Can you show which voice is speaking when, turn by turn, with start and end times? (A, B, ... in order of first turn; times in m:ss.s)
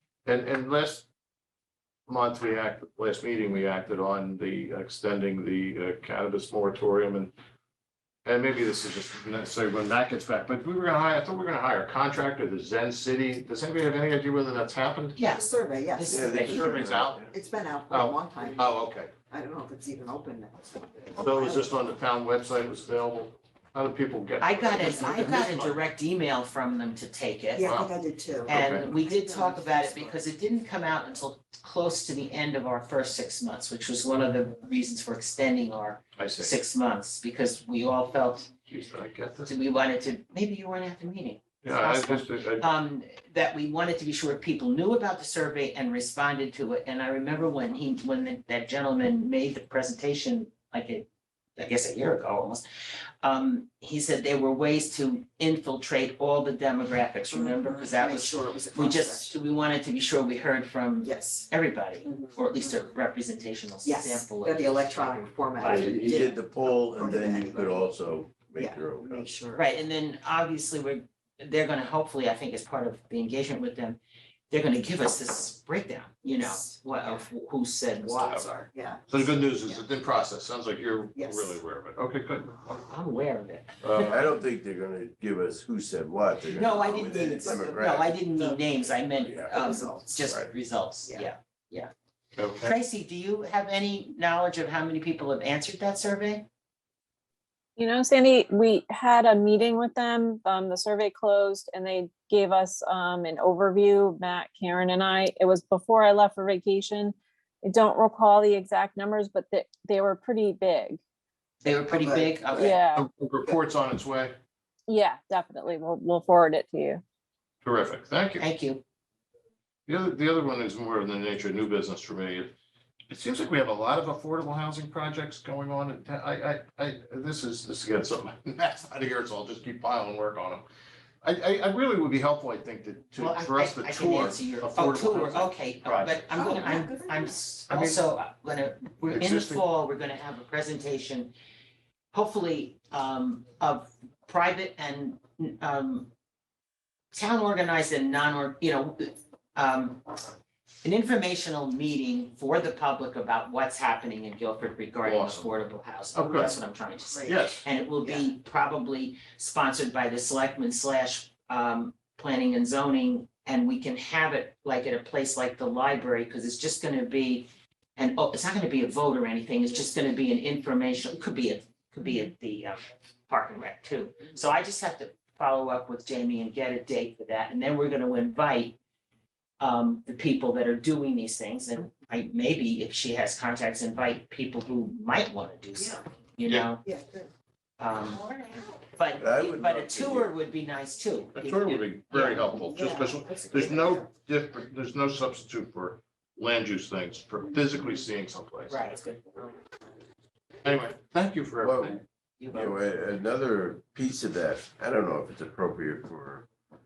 0:00.2-0:01.0 A
0:02.1-0:07.3 A
0:08.2-0:15.2 A
0:15.2-0:16.7 B
0:15.3-0:16.7 C
0:16.1-0:17.3 D
0:16.4-0:17.2 A
0:17.3-0:18.7 C
0:17.9-0:19.1 A
0:19.3-0:21.9 C
0:21.1-0:25.8 A
0:24.4-0:27.8 B
0:27.5-0:30.1 C
0:27.6-0:27.9 A
0:28.5-0:28.9 A
0:28.5-0:38.5 B
0:36.2-0:36.5 A
0:38.7-0:39.5 A
0:39.4-0:51.0 B
0:41.6-0:42.7 A
0:51.6-0:52.6 B
0:53.2-1:06.1 B
0:57.3-0:59.3 C
1:01.0-1:01.4 C
1:03.8-1:07.9 C
1:05.6-1:09.3 D
1:08.6-1:09.8 C
1:09.5-1:14.0 B
1:14.5-1:18.7 B
1:16.3-1:17.2 C
1:18.0-1:18.5 A
1:18.7-1:19.8 C
1:19.1-1:22.6 A
1:21.1-1:21.6 C
1:22.7-1:24.3 B
1:23.8-1:24.3 A
1:24.0-1:28.2 D
1:26.5-1:31.9 B
1:27.0-1:27.8 C
1:28.3-1:30.2 C
1:29.2-1:30.5 D
1:32.4-1:32.8 A
1:32.6-1:36.4 B
1:37.8-1:51.0 E
1:51.6-1:52.8 B
1:51.9-1:52.7 C
1:52.6-1:53.0 E
1:52.9-1:54.3 A
1:54.9-1:57.0 E
1:57.6-1:58.4 A
1:58.4-1:58.8 B
1:59.9-2:02.5 A
2:03.1-2:10.6 A
2:11.2-2:16.2 A
2:13.2-2:21.3 B
2:16.3-2:17.3 C
2:17.7-2:18.0 A
2:19.0-2:19.6 A
2:22.1-2:26.1 B
2:27.1-2:30.1 B
2:30.8-2:58.8 B
2:35.0-2:35.5 A
2:36.1-2:36.6 A
2:37.1-2:37.4 C
2:37.2-2:37.6 A
2:38.0-2:38.3 C
2:59.6-3:06.8 B
3:06.8-3:07.3 C
3:07.8-3:12.5 B
3:09.2-3:10.3 D
3:11.3-3:18.8 A
3:12.6-3:14.1 C
3:13.3-3:13.8 B
3:18.7-3:19.5 B
3:20.6-3:22.0 A
3:21.6-3:22.0 D
3:22.4-3:22.8 B
3:22.5-3:26.5 D